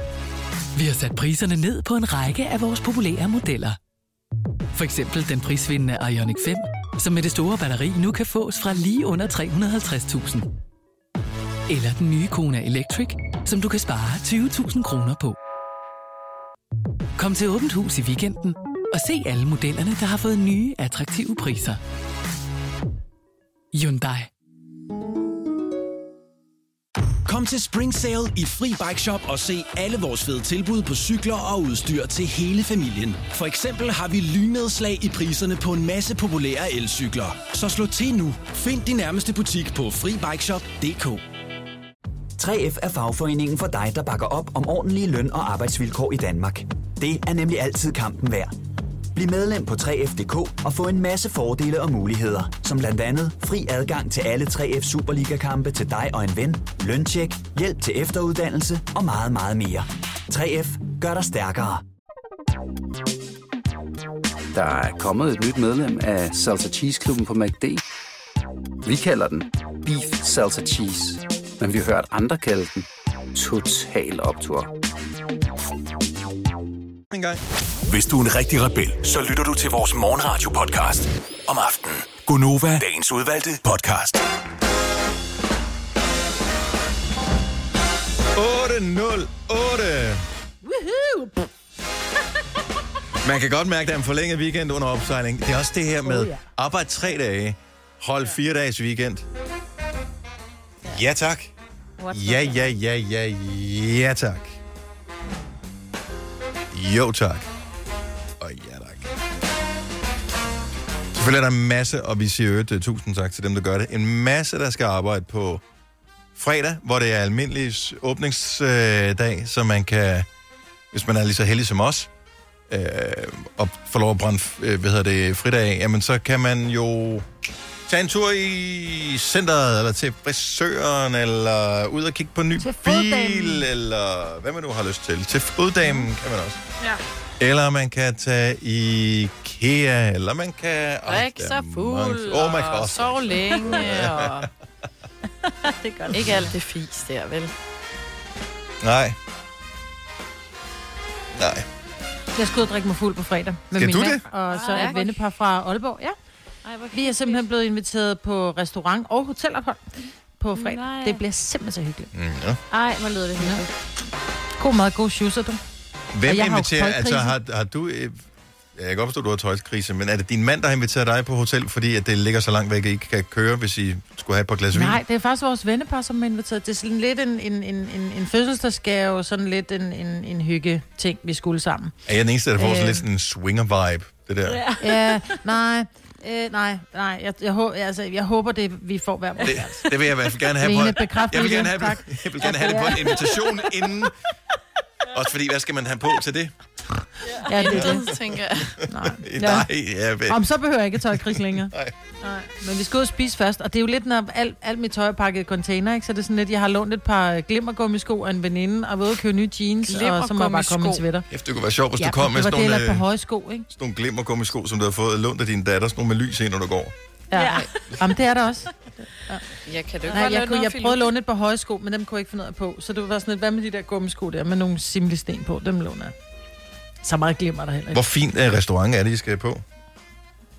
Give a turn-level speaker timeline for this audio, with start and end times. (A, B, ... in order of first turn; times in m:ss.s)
0:00.7-0:03.8 A
0:04.7-0:10.5 A
0:11.7-0:15.4 A
0:17.2-0:21.8 A
0:23.7-0:24.3 A
0:27.2-0:41.2 B
0:42.4-0:48.5 C
0:49.1-1:01.8 C
1:04.5-1:07.8 D
1:08.8-1:14.7 D
1:17.1-1:17.4 E
1:17.8-1:24.2 F
1:28.3-1:30.2 E
1:30.6-1:31.4 G
1:33.2-1:39.2 E
1:36.1-1:36.4 G
1:40.8-1:41.5 E
1:42.0-1:42.7 H
1:42.1-1:44.6 E
1:46.7-1:47.5 E
1:48.4-1:49.1 E
1:51.1-1:55.6 E
1:56.3-2:00.3 E
2:00.9-2:02.1 E
2:02.7-2:07.2 E
2:07.9-2:16.6 E
2:12.6-2:13.7 G
2:17.4-2:24.5 E
2:21.1-2:24.5 I
2:25.9-2:26.3 G
2:25.9-2:26.5 H
2:26.1-2:27.5 I
2:28.8-2:29.2 E
2:31.3-2:31.6 E
2:32.3-2:36.2 G
2:33.7-2:34.2 E
2:34.5-2:35.1 H
2:34.7-2:35.0 I
2:36.6-2:37.5 H
2:36.9-2:42.1 G
2:40.5-2:41.2 H
2:42.1-2:42.6 E
2:42.7-2:43.7 H
2:43.4-2:43.6 G
2:44.6-2:45.6 G
2:46.1-2:55.0 E
2:46.2-2:47.4 G
2:54.7-3:01.9 G
3:02.0-3:04.6 E
3:02.6-3:03.0 G
3:04.5-3:05.2 H
3:04.8-3:09.9 G
3:09.4-3:14.1 E
3:10.6-3:13.4 G
3:15.1-3:16.5 E
3:17.4-3:18.1 G
3:17.5-3:18.8 I
3:17.7-3:18.1 E
3:18.9-3:19.7 G
3:19.1-3:20.4 E
3:20.2-3:31.3 G
3:21.0-3:21.9 E
3:29.9-3:31.0 I
3:31.3-3:33.0 E
3:32.0-3:33.7 G
3:33.7-3:36.9 E
3:37.3-3:39.4 G
3:37.3-3:37.7 H
3:37.4-3:37.7 I
3:39.6-3:41.1 I
3:40.1-3:46.1 G
3:47.0-3:48.0 G
3:47.9-3:49.6 E